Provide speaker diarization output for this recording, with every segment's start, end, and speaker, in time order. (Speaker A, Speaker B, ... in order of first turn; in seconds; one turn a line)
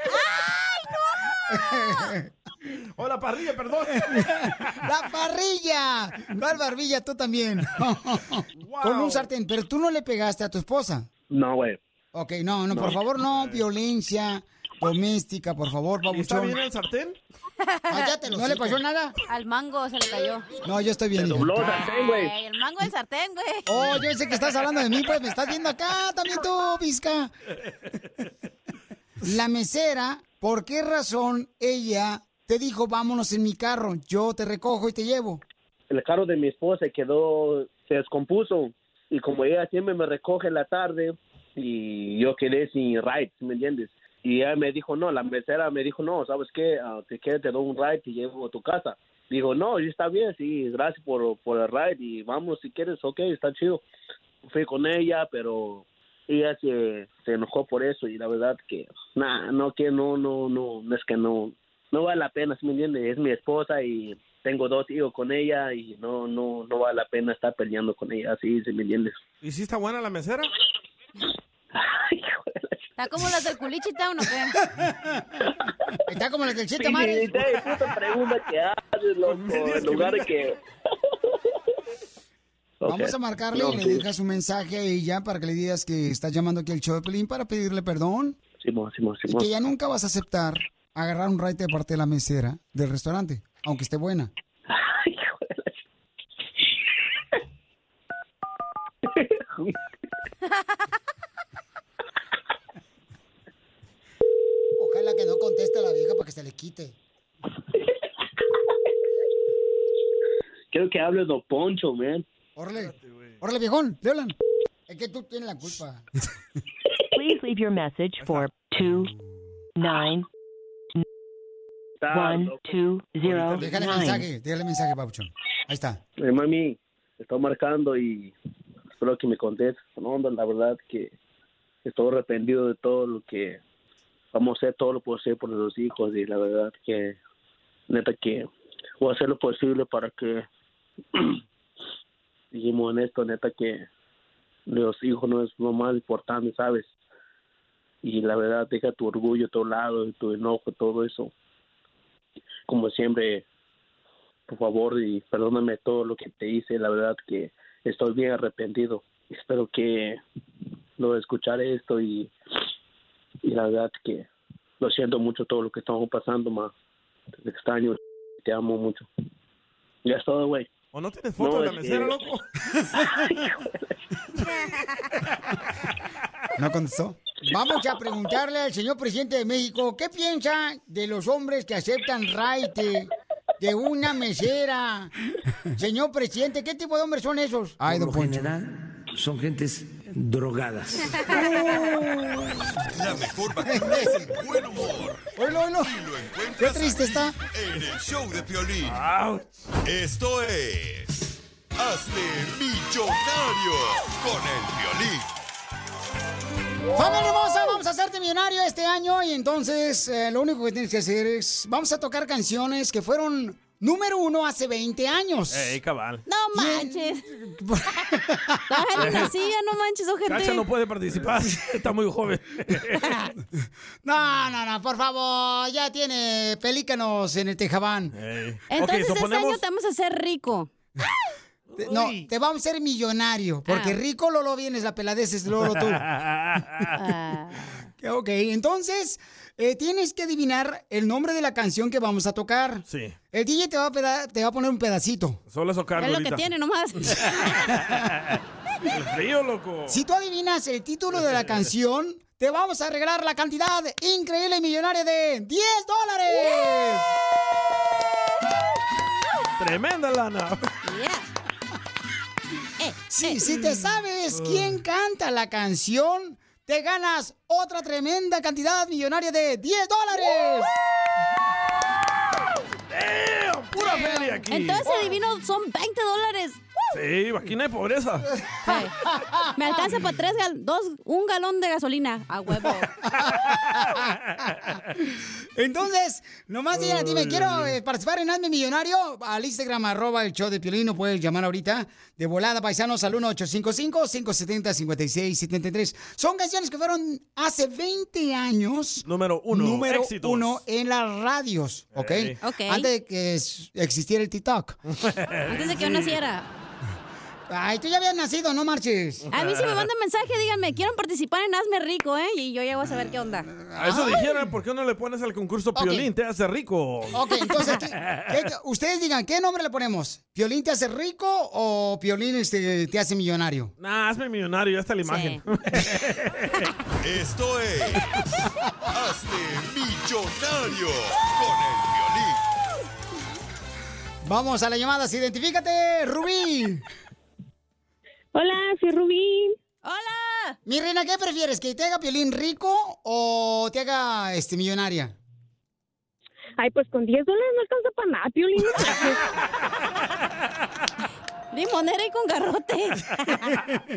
Speaker A: 1.5-2.3
Speaker B: 3.0-4.8
Speaker A: 4.8-11.1
Speaker B: 8.6-9.3
Speaker C: 11.3-11.8
Speaker A: 12.1-16.6
Speaker B: 13.3-13.6
Speaker B: 16.1-17.2
Speaker D: 17.6-18.1
Speaker A: 17.9-19.1
Speaker D: 19.3-20.5
Speaker A: 20.6-21.8
Speaker C: 21.1-22.3
Speaker D: 21.6-23.9
Speaker A: 23.7-27.3
Speaker A: 29.2-35.4
Speaker C: 35.9-53.8
Speaker C: 54.5-69.2
Speaker B: 69.4-70.5
Speaker C: 71.7-72.8
Speaker D: 73.0-74.6
Speaker C: 75.4-75.7
Speaker A: 76.1-77.4
Speaker C: 76.8-80.6
Speaker B: 79.2-80.3
Speaker C: 82.8-84.0
Speaker A: 82.9-88.4
Speaker C: 88.6-89.5
Speaker A: 89.3-94.3
Speaker C: 94.7-95.8
Speaker C: 99.0-99.7
Speaker A: 104.8-106.9
Speaker C: 110.7-112.2
Speaker A: 112.5-114.3
Speaker B: 112.8-113.3
Speaker A: 114.9-116.0
Speaker E: 117.1-119.1
Speaker B: 118.2-118.5
Speaker E: 119.8-120.2
Speaker C: 122.0-122.6
Speaker E: 122.1-124.3
Speaker B: 123.2-124.1
Speaker A: 123.6-126.0
Speaker C: 126.2-128.3
Speaker C: 129.0-131.1
Speaker C: 131.8-133.6
Speaker C: 134.3-137.2
Speaker C: 137.9-138.5
Speaker C: 139.0-140.4
Speaker C: 142.5-143.8
Speaker C: 144.7-146.9
Speaker C: 148.0-151.3
Speaker C: 152.7-153.4
Speaker C: 154.5-160.2
Speaker C: 161.0-162.3
Speaker C: 163.4-164.3
Speaker C: 164.8-166.7
Speaker C: 167.4-169.1
Speaker C: 170.0-170.7
Speaker B: 170.9-172.4
Speaker C: 171.4-172.2
Speaker C: 172.9-173.9
Speaker A: 176.6-185.1
Speaker A: 185.8-188.5
Speaker F: 187.8-191.3
Speaker A: 191.2-192.4
Speaker G: 192.9-199.0
Speaker A: 193.7-194.3
Speaker A: 195.3-195.9
Speaker A: 196.6-197.3
Speaker B: 198.8-199.4
Speaker G: 199.8-205.3
Speaker A: 206.9-215.8
Speaker B: 215.5-216.2
Speaker D: 216.3-217.2
Speaker A: 216.5-219.3
Speaker D: 218.7-220.6
Speaker B: 219.0-219.3
Speaker B: 220.2-223.2
Speaker A: 224.0-228.1
Speaker B: 228.1-229.6
Speaker D: 228.7-230.7
Speaker B: 231.7-232.3
Speaker A: 231.8-236.0
Speaker D: 233.7-234.0
Speaker B: 235.6-236.9
Speaker D: 236.9-237.8
Speaker A: 238.0-245.4
Speaker B: 242.9-243.1
Speaker B: 245.5-246.4
Speaker D: 246.0-247.5
Speaker B: 247.1-250.0
Speaker A: 249.9-257.1
Speaker B: 251.1-251.7
Speaker B: 259.6-260.7
Speaker D: 260.8-261.3
Speaker D: 262.8-263.4
Speaker A: 263.1-270.7
Speaker B: 264.3-264.8
Speaker B: 272.9-274.8
Speaker A: 273.7-274.4
Speaker D: 274.5-276.6
Speaker B: 276.9-278.3
Speaker D: 278.6-278.9
Speaker D: 279.6-282.9
Speaker A: 283.2-304.8
Speaker B: 286.7-287.7
Speaker B: 299.0-300.6
Speaker B: 301.9-302.4
Speaker D: 302.4-302.9
Speaker B: 304.9-306.2
Speaker D: 305.5-306.5
Speaker A: 307.5-309.2
Speaker B: 309.3-309.9
Speaker D: 309.3-313.5
Speaker A: 313.0-314.4
Speaker B: 313.8-317.2
Speaker A: 315.7-316.1
Speaker A: 317.1-323.7
Speaker B: 323.8-326.7
Speaker D: 325.0-325.4
Speaker G: 327.0-328.1
Speaker G: 328.9-332.4
Speaker A: 334.2-336.8
Speaker H: 338.3-339.6
Speaker D: 339.8-340.6
Speaker A: 340.6-345.1
Speaker H: 346.6-349.3
Speaker D: 351.5-353.4